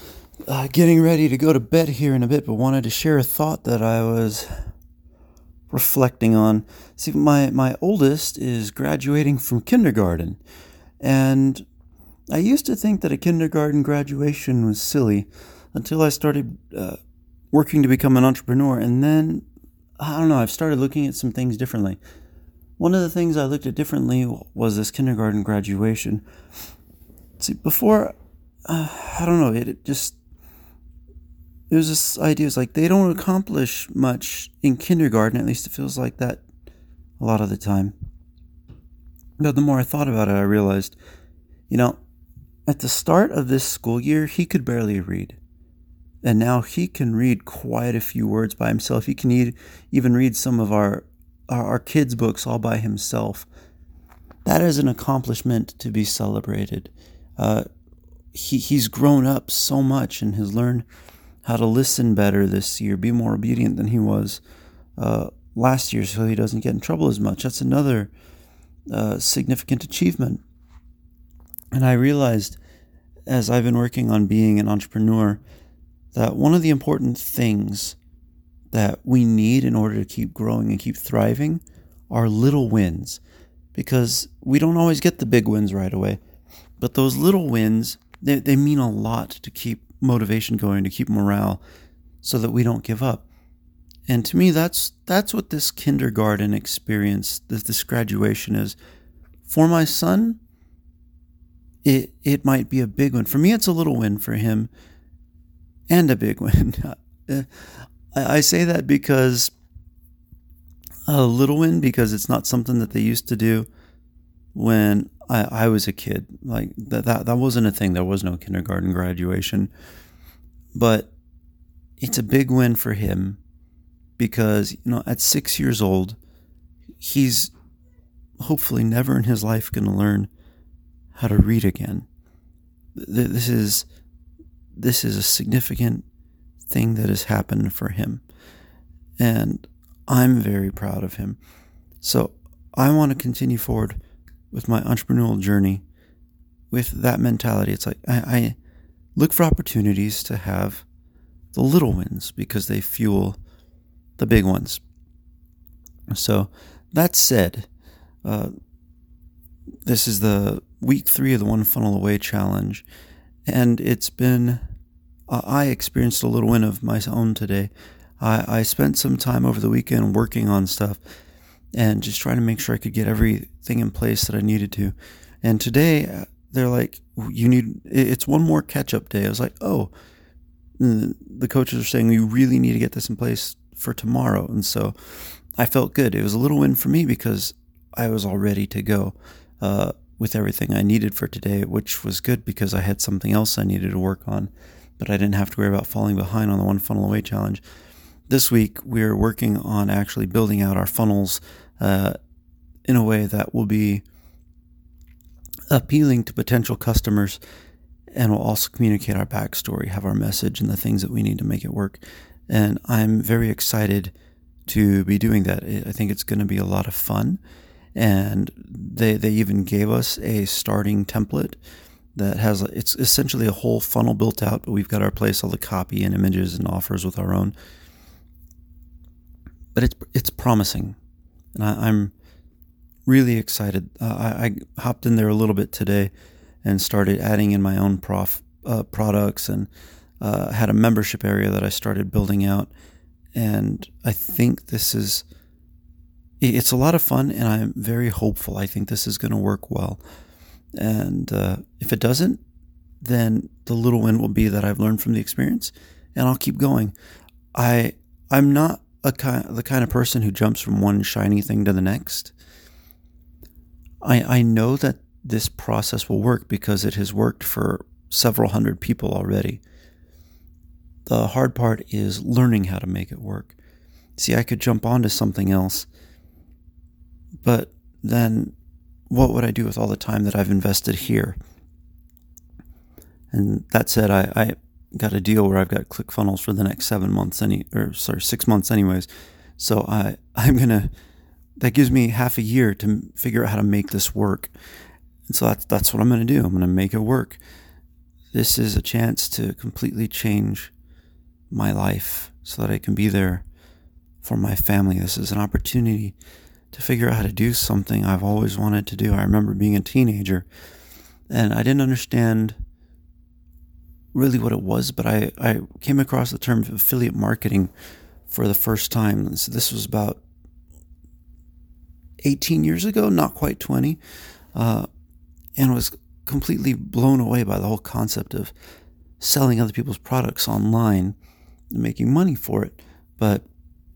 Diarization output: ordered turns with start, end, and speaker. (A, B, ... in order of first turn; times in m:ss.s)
0:00.5-0:04.5 A
0:05.7-0:10.4 A
0:11.0-0:11.6 A
0:12.3-0:17.0 A
0:17.5-0:19.5 A
0:20.0-0:22.0 A
0:22.8-0:26.2 A
0:27.4-0:28.2 A
0:28.7-0:30.2 A
0:31.7-0:36.4 A
0:37.2-0:37.9 A
0:39.4-0:41.0 A
0:41.7-0:42.0 A
0:42.7-0:45.4 A
0:46.2-0:53.5 A
0:54.4-0:57.7 A
0:58.3-1:00.8 A
1:01.4-1:04.4 A
1:05.0-1:08.1 A
1:08.9-1:10.4 A
1:11.7-1:12.6 A
1:13.3-1:15.4 A
1:16.1-1:18.0 A
1:18.7-1:23.2 A
1:23.7-1:26.2 A
1:26.8-1:31.6 A
1:32.2-1:33.3 A
1:34.1-1:38.8 A
1:39.5-1:40.4 A
1:41.8-1:44.7 A
1:45.9-1:49.5 A
1:51.1-1:53.7 A
1:54.5-1:59.7 A
2:00.7-2:01.1 A
2:02.0-2:03.4 A
2:04.2-2:06.2 A
2:07.0-2:07.5 A
2:08.4-2:10.3 A
2:11.2-2:12.1 A
2:13.0-2:13.8 A
2:14.8-2:16.0 A
2:16.7-2:18.2 A
2:19.2-2:21.4 A
2:22.0-2:24.0 A
2:24.5-2:25.8 A
2:26.7-2:28.6 A
2:29.2-2:30.8 A
2:31.5-2:33.4 A
2:34.2-2:34.8 A
2:36.1-2:37.7 A
2:38.2-2:38.5 A
2:39.9-2:42.8 A
2:43.5-2:44.6 A
2:45.3-2:51.0 A
2:51.8-2:59.9 A
3:00.8-3:05.0 A
3:05.6-3:17.6 A
3:18.3-3:22.2 A
3:22.9-3:24.0 A
3:25.7-3:27.4 A
3:28.2-3:34.1 A
3:34.7-3:37.4 A
3:38.0-3:41.6 A
3:42.2-3:47.5 A
3:49.8-3:51.0 A
3:51.6-3:52.1 A
3:53.1-3:56.1 A
3:56.6-3:59.7 A
4:00.2-4:02.7 A
4:03.4-4:05.2 A
4:06.4-4:10.0 A
4:10.8-4:12.4 A
4:13.0-4:16.9 A
4:17.6-4:22.3 A
4:24.0-4:29.6 A
4:31.1-4:33.6 A
4:34.2-4:35.9 A
4:37.4-4:38.6 A
4:39.1-4:41.4 A
4:43.3-4:50.9 A
4:51.6-4:54.5 A
4:55.3-4:57.4 A
4:58.3-5:00.7 A
5:01.5-5:03.4 A
5:04.2-5:06.2 A
5:06.7-5:10.5 A
5:11.3-5:12.6 A
5:14.1-5:17.7 A
5:18.3-5:20.2 A
5:22.2-5:24.0 A
5:24.6-5:24.9 A
5:25.6-5:28.5 A
5:29.2-5:31.2 A
5:31.7-5:33.5 A